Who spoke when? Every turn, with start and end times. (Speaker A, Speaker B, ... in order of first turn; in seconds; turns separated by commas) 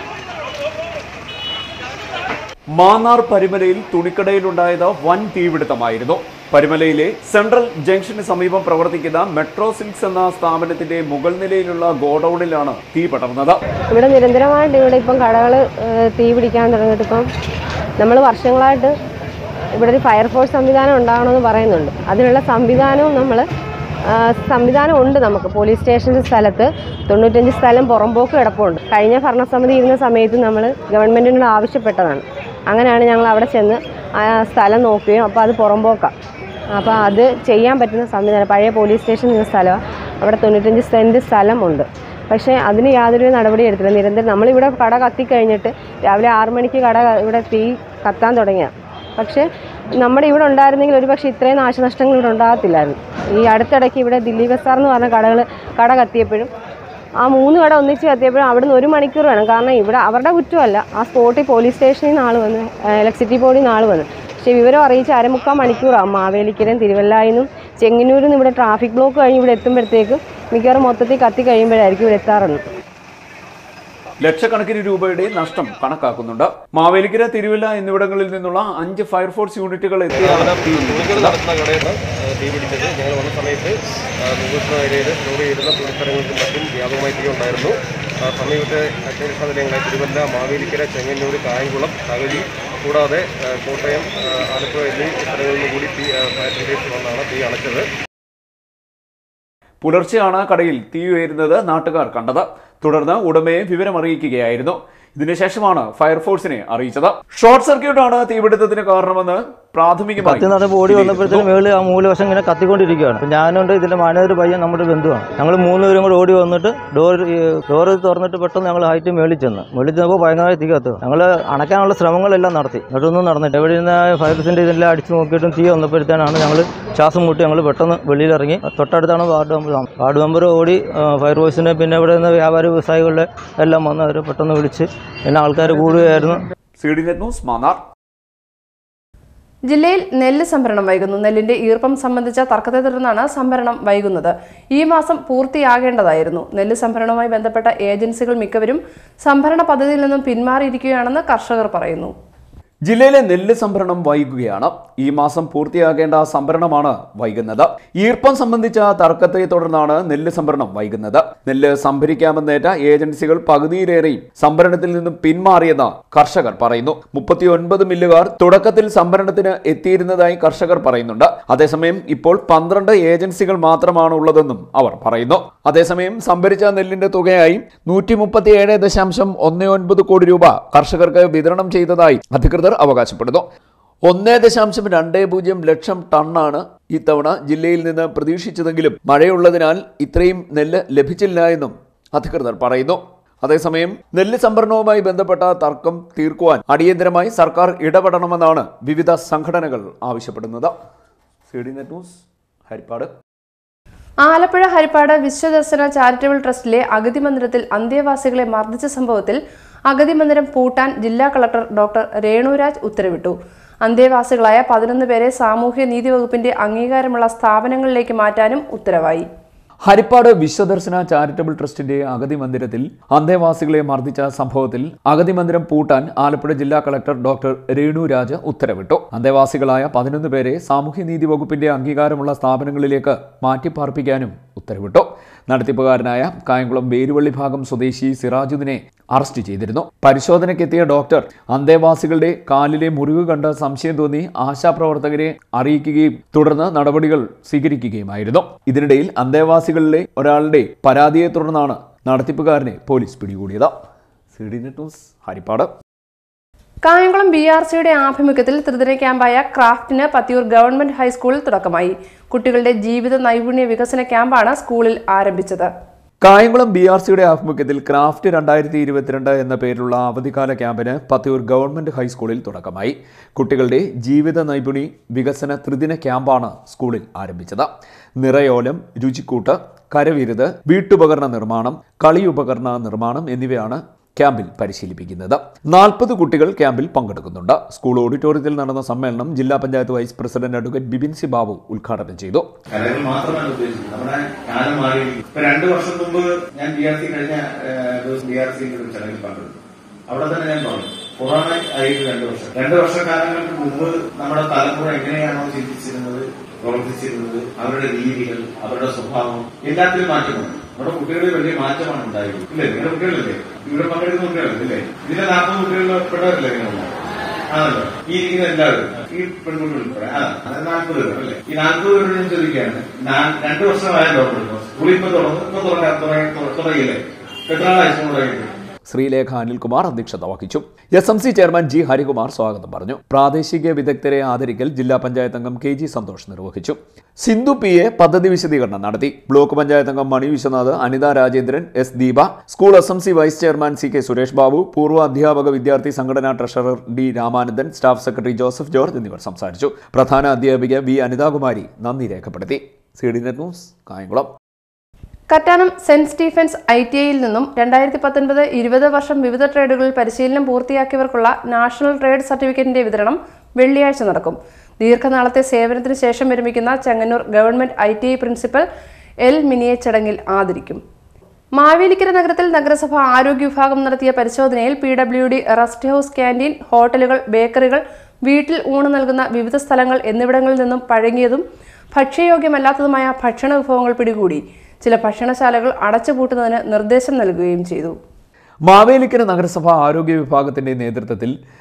Speaker A: 2.8-13.6, Speaker B: 13.9-17.3, Speaker B: 18.0-18.9, Speaker B: 19.8-23.4, Speaker B: 24.1-36.1, Speaker B: 36.7-49.5, Speaker B: 50.0-56.5, Speaker B: 57.2-72.6, Speaker A: 74.2-81.4, Speaker C: 80.1-97.9, Speaker A: 99.8-111.5, Speaker D: 110.2-136.4, Speaker A: 136.8-137.8, Speaker E: 139.7-152.1, Speaker A: 152.9-183.4, Speaker A: 184.1-200.7, Speaker A: 201.5-203.1, Speaker E: 204.2-219.3, Speaker A: 219.9-253.7, Speaker A: 254.3-255.7, Speaker E: 256.9-265.7, Speaker A: 266.2-292.5, Speaker F: 292.7-299.6, Speaker F: 300.1-316.9, Speaker F: 317.5-328.5, Speaker A: 328.9-354.3, Speaker E: 355.3-368.6, Speaker E: 369.2-370.8, Speaker E: 371.6-381.4, Speaker E: 381.9-387.9, Speaker A: 388.7-391.3